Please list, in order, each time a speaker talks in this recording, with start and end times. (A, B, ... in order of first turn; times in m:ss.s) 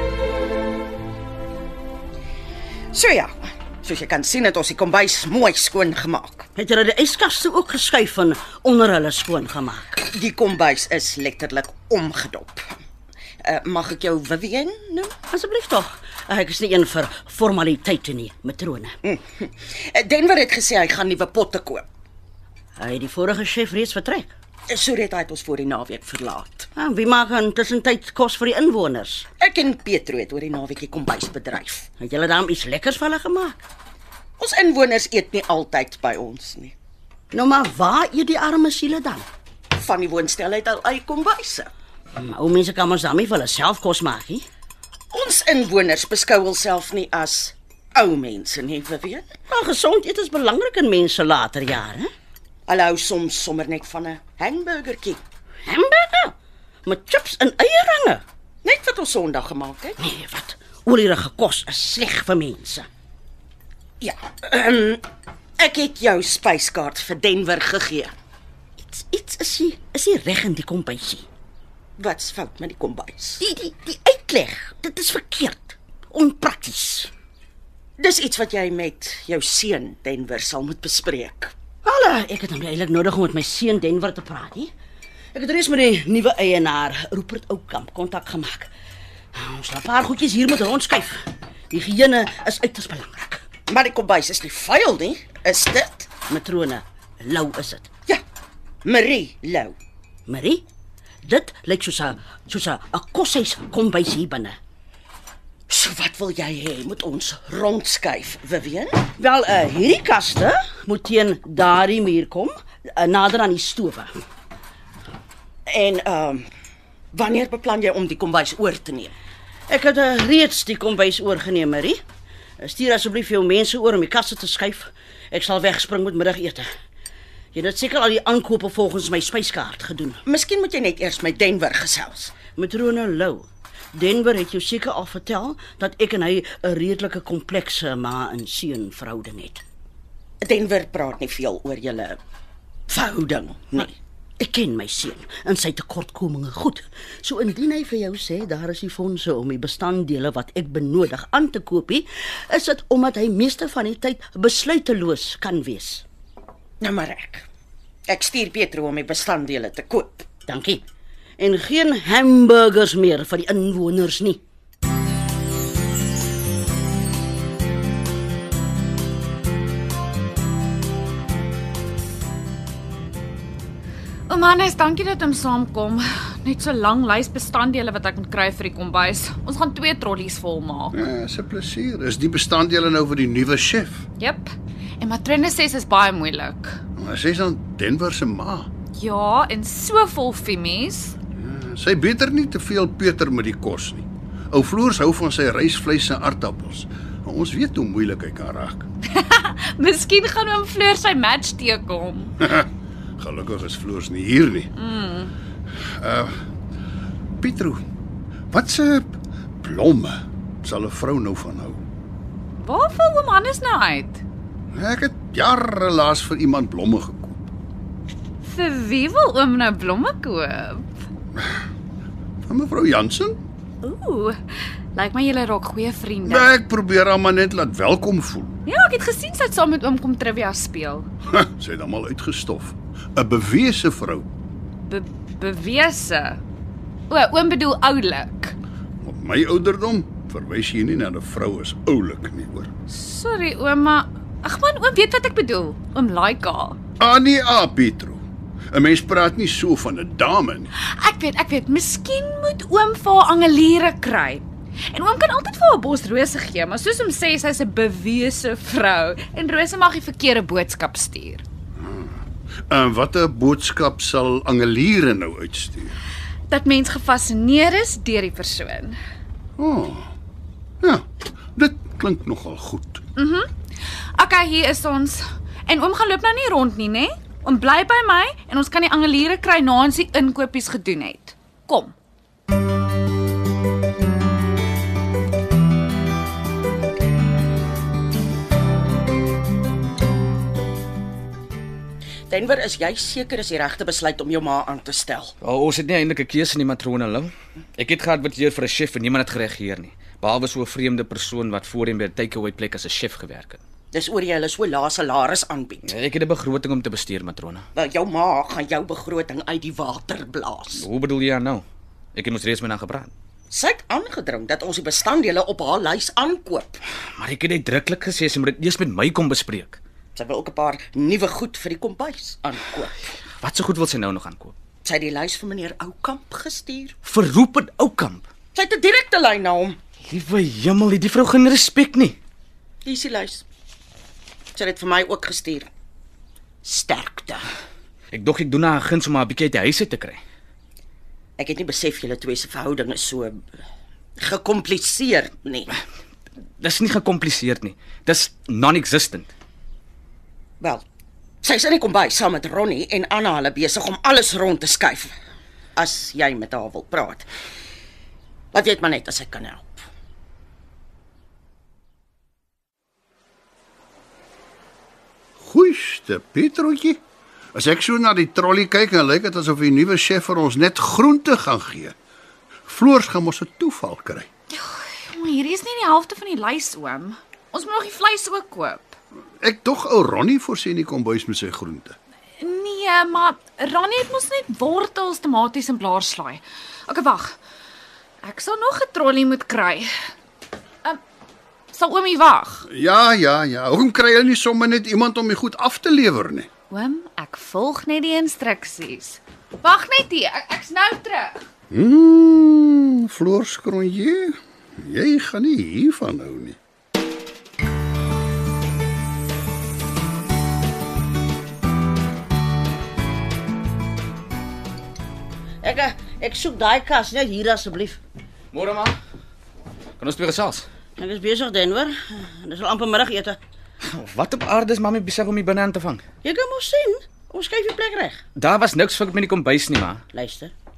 0:02.9-0:06.5 A
0:06.6-0:10.0 B
0:10.0-0:12.7 A
0:13.4-0:15.1 A
0:15.3-0:19.0 B
0:19.0-0:21.8 A
0:22.8-0:24.3 B
0:24.7-0:26.7 A
0:26.8-0:29.3 B
0:29.4-0:31.9 A
0:32.0-0:33.6 B
0:34.4-0:36.8 A
0:37.3-0:39.3 B
0:39.8-0:41.7 A
0:42.2-0:44.4 B
0:45.1-0:49.3 A
0:49.5-0:52.1 B
0:52.7-0:55.2 A
0:55.7-0:56.3 B
0:56.8-0:58.2 B
0:58.6-1:00.0 A
1:00.0-1:02.9 B
1:04.0-1:05.0 A
1:05.6-1:08.1 A
1:08.8-1:11.2 B
1:12.0-1:13.4 A
1:13.4-1:17.1 B
1:18.0-1:21.5 A
1:21.8-1:24.7 B
1:25.3-1:28.7 B
1:29.3-1:33.4 B
1:33.7-1:36.1 A
1:36.3-1:37.9 B
1:38.8-1:39.7 A
1:40.3-1:40.6 B
1:41.2-1:44.6 B
1:45.7-1:49.0 A
1:49.2-1:54.1 B
1:55.7-1:56.5 A
1:57.1-1:59.1 A
1:59.7-2:02.0 B
2:02.6-2:06.7 B
2:07.5-2:10.2 B
2:10.2-2:12.4 A
2:12.5-2:19.6 B
2:20.4-2:22.2 A
2:22.9-2:24.0 A
2:24.4-2:36.0 B
2:36.8-2:37.5 A
2:38.1-2:40.3 A
2:40.5-2:40.8 B
2:41.4-2:44.4 B
2:54.3-3:01.0 C
3:00.9-3:04.0 D
3:04.2-3:06.8 C
3:07.0-3:08.7 D
3:08.9-3:11.2 C
3:11.4-3:18.8 D
3:19.0-3:22.4 C
3:22.4-3:22.7 D
3:23.2-3:24.7 D
3:24.8-3:25.3 C
3:26.0-3:26.4 D
3:27.4-3:27.8 D
3:28.5-3:31.8 D
3:32.5-3:34.2 C
3:34.7-3:37.3 D
3:38.4-3:41.0 C
3:42.5-3:43.4 D
3:43.8-3:46.5 C
3:46.3-3:48.5 D
3:48.7-3:51.1 C
3:51.3-3:54.2 D
3:54.8-3:56.4 C
3:57.1-3:58.5 C
3:59.0-4:02.7 D
4:02.9-4:06.8 C
4:07.0-4:08.2 D
4:08.7-4:10.7 D
4:10.8-4:21.4 C
4:21.8-4:22.1 D
4:22.7-4:26.0 D
4:26.5-4:29.0 C
4:29.6-4:30.1 D
4:31.6-4:33.0 D
4:33.2-4:33.5 C
4:34.1-4:42.0 C
4:52.3-4:55.3 A
4:55.4-5:03.6 E
5:03.9-5:05.9 A
5:05.8-5:07.6 E
5:07.8-5:10.9 A
5:10.8-5:13.1 E
5:13.5-5:16.8 A
5:17.2-5:19.8 E
5:20.2-5:22.9 A
5:23.4-5:24.5 E
5:24.8-5:27.0 A
5:27.0-5:28.3 E
5:28.5-5:29.8 A
5:30.0-5:32.2 E
5:32.8-5:33.4 A
5:34.6-5:35.7 A
5:36.6-5:37.4 A
5:38.1-5:40.2 E
5:41.4-5:43.6 A
5:44.2-5:45.7 A
5:46.6-5:49.3 E
5:51.4-5:55.1 A
5:55.8-5:57.3 A
5:58.5-5:59.8 A
6:05.4-6:07.0 D
6:07.6-6:11.9 D
6:12.7-6:14.3 D
6:14.5-6:19.0 C
6:19.4-6:22.0 D
6:22.4-6:27.4 C
6:28.2-6:29.9 C
6:31.7-6:32.7 C
6:32.7-6:36.5 D
6:36.7-6:41.5 C
6:41.7-6:46.6 D
6:55.6-6:58.0 B
6:58.5-6:59.0 E
7:00.0-7:00.6 E
7:01.0-7:03.4 B
7:03.8-7:06.0 E
7:06.2-7:08.2 B
7:08.4-7:10.0 E
7:10.1-7:10.5 B